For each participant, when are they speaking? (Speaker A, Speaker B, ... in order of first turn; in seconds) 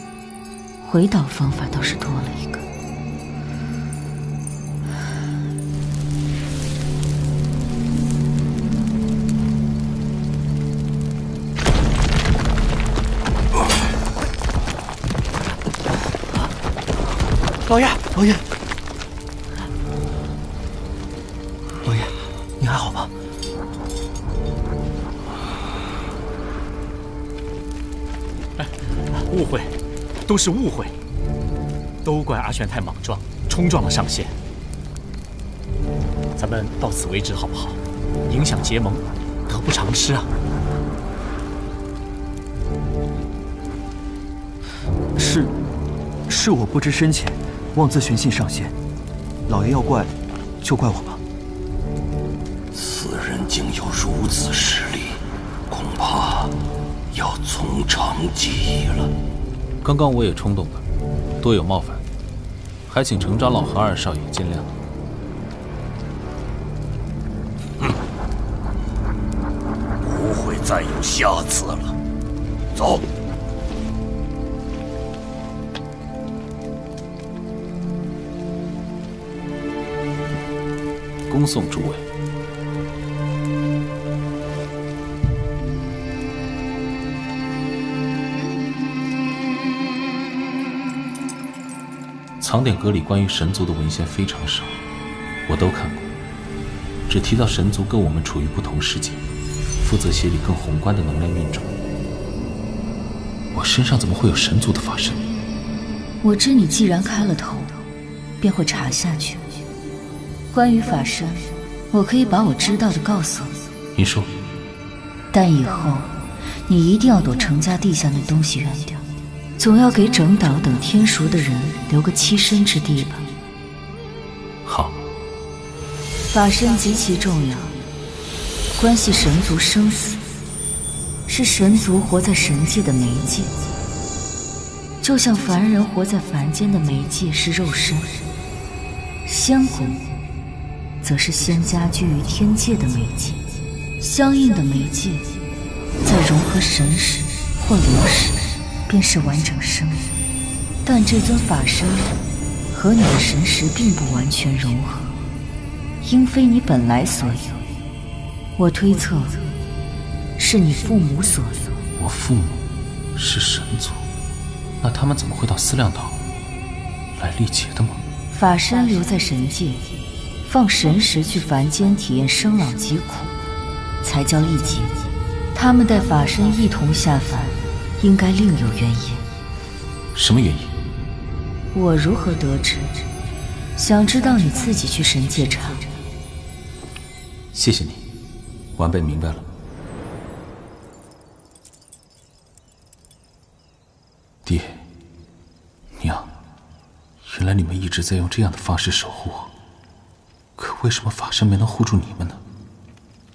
Speaker A: 0.8-2.6, 106.2-107.8, 108.4-109.5, 110.5-113.5, 115.3-119.0, 119.6-123.3, 126.3-127.8, 128.7-130.2, 131.3-133.5, 135.0-138.2, 139.2-140.1, 141.0-143.4, 144.0-145.3, 146.0-150.2, 150.8-155.2, 156.0-157.6, 158.6-159.4, 160.4-161.7, 168.3-169.8, 170.4-173.3, 174.0-175.0, 175.5-179.2, 181.7-183.1, 183.8-185.9
Speaker B: 17.7-18.4, 21.8-23.1, 45.1-45.5, 46.3-48.7, 49.5-51.2
Speaker C: 28.6-29.7, 30.3-30.9, 32.0-34.3, 36.4-40.3
Speaker D: 52.7-55.2, 55.7-56.5, 57.1-59.1, 70.0-72.0, 72.8-73.0
Speaker E: 59.8-60.8, 61.4-62.0, 62.9-64.7, 81.3-82.0, 92.4-94.7, 95.5-96.1, 97.1-99.2, 99.8-101.7, 103.5-105.2, 114.0-114.3, 162.0-164.0, 164.8-166.2, 167.2-168.0, 180.1-180.7, 187.5-188.1, 188.8-189.4, 194.4-194.8, 196.0-196.3, 197.2-199.5, 200.6-202.4